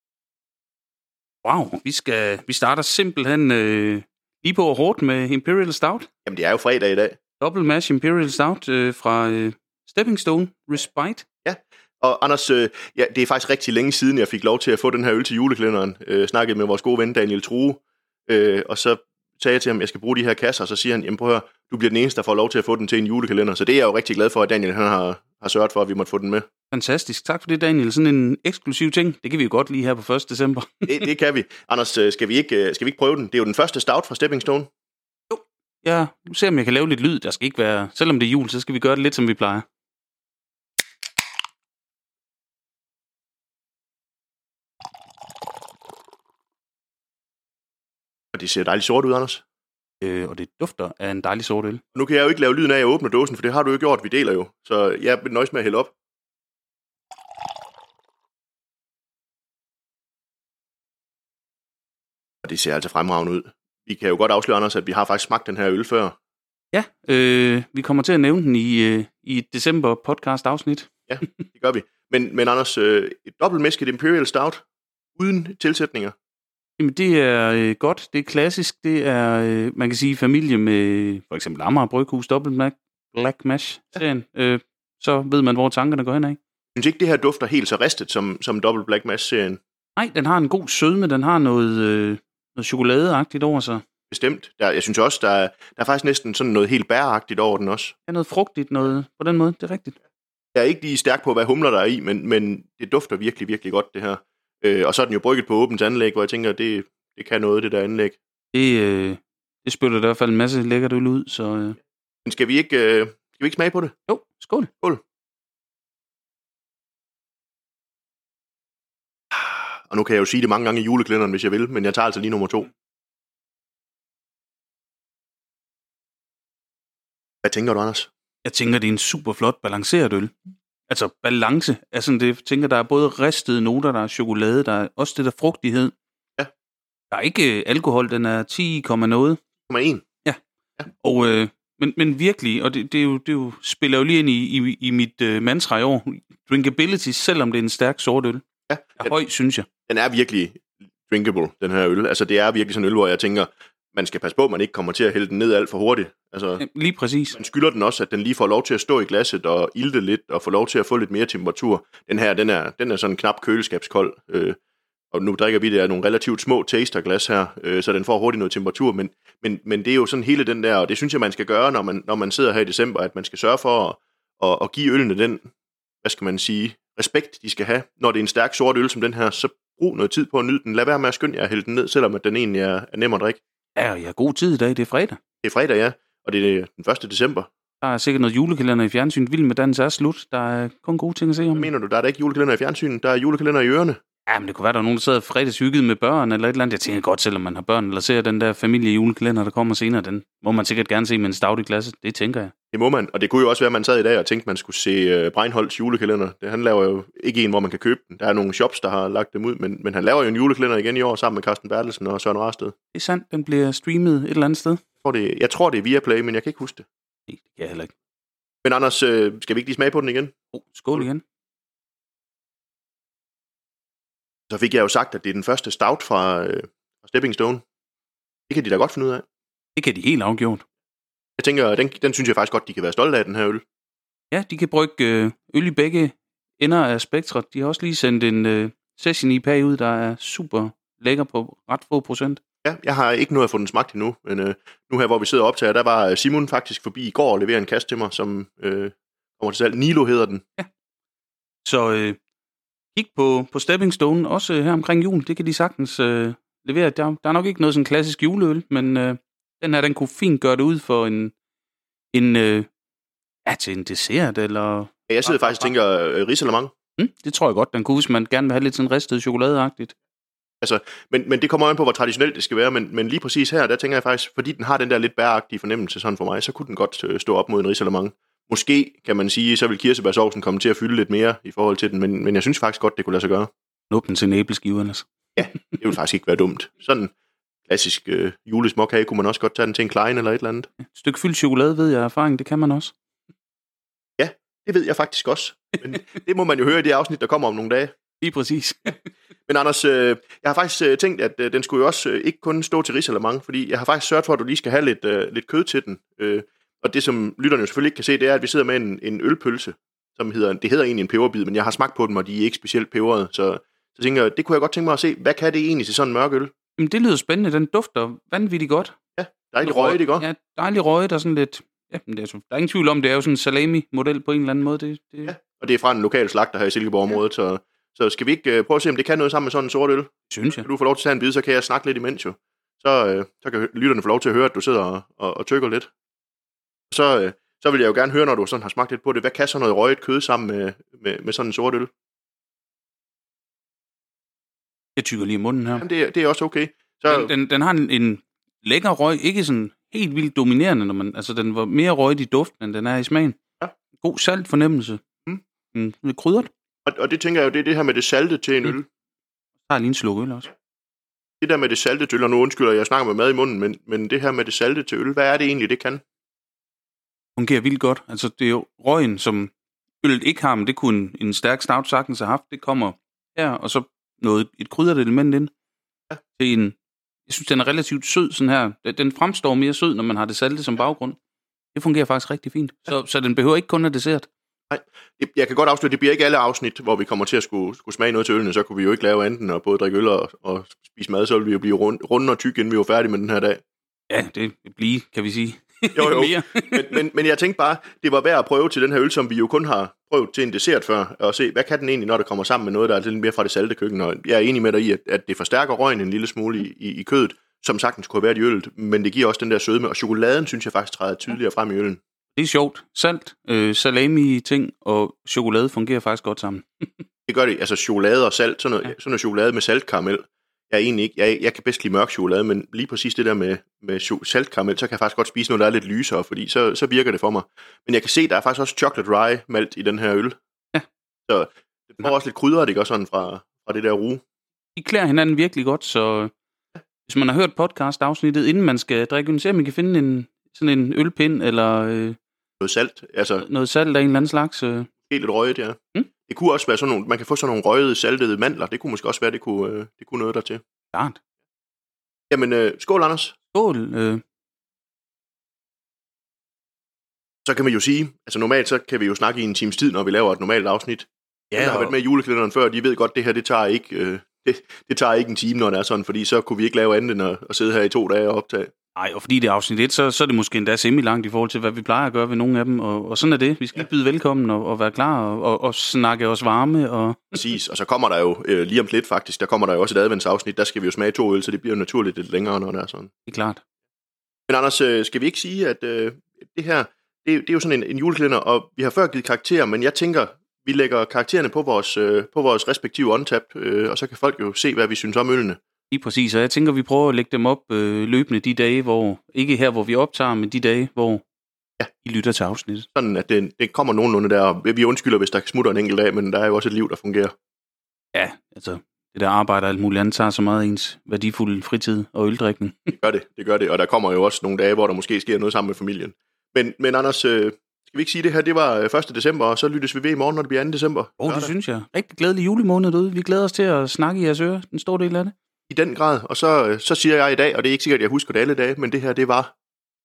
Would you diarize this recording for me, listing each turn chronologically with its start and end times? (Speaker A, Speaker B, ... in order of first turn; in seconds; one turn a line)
Speaker A: 1.4-6.1
Speaker B: 6.2-7.2
Speaker A: 7.4-11.2
Speaker B: 11.4-26.4
Speaker A: 26.7-31.1
Speaker B: 30.9-34.7
Speaker A: 35.3-39.6
Speaker B: 48.3-49.4
Speaker A: 50.0-51.8
Speaker B: 51.9-55.9
Speaker B: 62.4-66.2
Speaker A: 66.7-71.3
Speaker B: 71.1-74.6
Speaker B: 75.2-76.1
Speaker A: 76.8-86.4
Speaker B: 86.7-89.6
Speaker A: 90.0-93.8
Speaker B: 94.1-97.9
Speaker A: 98.1-100.0
Speaker B: 100.5-108.2
Speaker A: 108.5-111.8
Speaker B: 112.2-113.9
Speaker A: 114.1-114.7
Speaker B: 119.3-122.7
Speaker B: 127.4-128.1
Speaker A: 128.4-130.3
Speaker A: 130.9-135.9
Speaker A: 137.1-139.4
Speaker B: 139.7-140.0
Speaker A: 140.2-148.4
Speaker B: 148.7-149.1
Speaker A: 149.0-149.7
Speaker B: 149.9-156.6
Speaker A: 156.6-157.4
Speaker B: 157.3-164.6
Speaker B: 165.1-175.4
Speaker B: 176.0-183.4
Speaker A: 183.8-185.2
Speaker B: 185.4-187.5
Speaker A: 187.8-191.7
Speaker B: 191.5-194.0
Speaker A: 194.3-202.5
Speaker B: 202.7-212.7
Speaker A: 212.9-214.8
Speaker B: 215.0-216.8
Speaker A: 217.3-217.9
Speaker B: 218.6-220.3
Speaker A: 220.5-221.2
Speaker B: 224.5-227.6
Speaker B: 228.5-229.2
Speaker A: 229.8-230.6
Speaker B: 231.4-233.6
Speaker A: 234.3-242.4
Speaker B: 242.6-250.4
Speaker A: 251.6-252.2
Speaker A: 252.9-261.3
Speaker A: 262.1-262.7
Speaker A: 263.4-265.7
Speaker B: 265.1-266.7
Speaker A: 267.0-269.9
Speaker B: 270.6-283.5
Speaker A: 283.9-285.1
Speaker B: 285.4-287.1
Speaker B: 287.7-290.7
Speaker A: 290.8-292.9
Speaker B: 294.2-297.9
Speaker A: 298.2-299.1
Speaker B: 299.5-316.5
Speaker A: 316.8-318.9
Speaker B: 319.2-320.2
Speaker A: 319.6-325.3
Speaker B: 325.2-335.9
Speaker A: 330.3-330.6
Speaker B: 336.9-341.9
Speaker A: 345.0-345.8
Speaker B: 345.8-347.3
Speaker A: 347.1-353.4
Speaker A: 354.0-355.0
Speaker A: 355.7-356.5
Speaker B: 356.9-358.9
Speaker A: 359.7-360.5
Speaker B: 361.4-366.0
Speaker A: 367.4-375.5
Speaker A: 376.4-376.7
Speaker A: 377.3-381.2
Speaker A: 381.7-384.3
Speaker B: 384.7-393.6
Speaker A: 394.1-397.0
Speaker B: 395.9-412.0
Speaker A: 412.4-417.0
Speaker B: 417.3-430.4
Speaker B: 431.3-434.2
Speaker A: 434.8-436.3
Speaker A: 437.1-442.2
Speaker B: 442.6-443.4
Speaker A: 443.4-444.9
Speaker B: 445.1-450.6
Speaker A: 450.9-451.2
Speaker B: 452.3-453.4
Speaker A: 453.5-454.2
Speaker B: 457.4-468.7
Speaker A: 461.5-461.9
Speaker A: 468.9-477.4
Speaker B: 477.3-483.1
Speaker A: 483.2-483.6
Speaker B: 484.5-495.6
Speaker A: 495.9-501.2
Speaker A: 502.0-502.9
Speaker B: 502.9-507.3
Speaker A: 508.1-512.9
Speaker B: 512.9-521.5
Speaker A: 521.2-525.3
Speaker B: 525.7-529.5